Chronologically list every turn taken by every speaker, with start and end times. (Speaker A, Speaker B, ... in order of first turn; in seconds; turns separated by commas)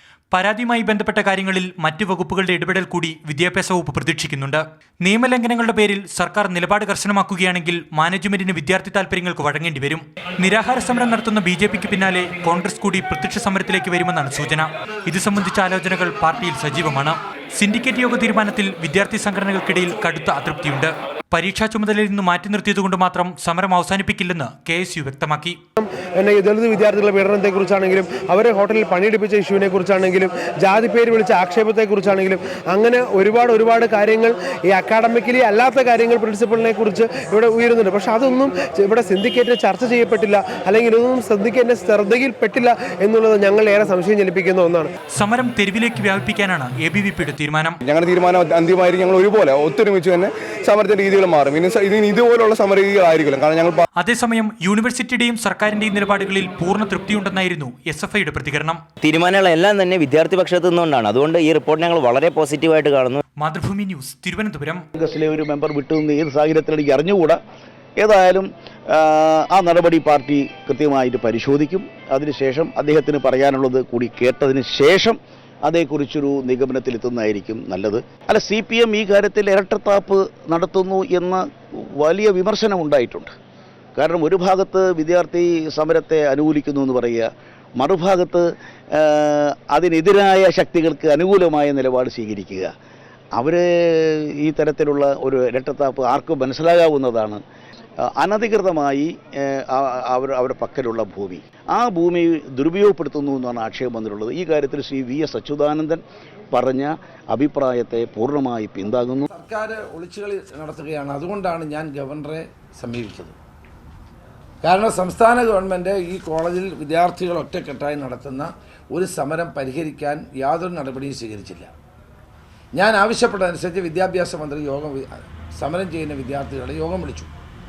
Speaker A: 0.3-25.6, Speaker B: 25.8-44.9, Speaker A: 45.1-47.8, Speaker C: 47.8-53.8, Speaker A: 54.0-58.8, Speaker D: 59.0-63.2, Speaker A: 63.4-64.8, Speaker E: 65.0-67.4, Speaker E: 68.0-83.3, Speaker E: 84.0-92.7, Speaker E: 93.3-97.4, Speaker E: 98.1-109.3, Speaker F: 109.3-113.4, Speaker F: 114.6-121.7, Speaker F: 122.8-127.3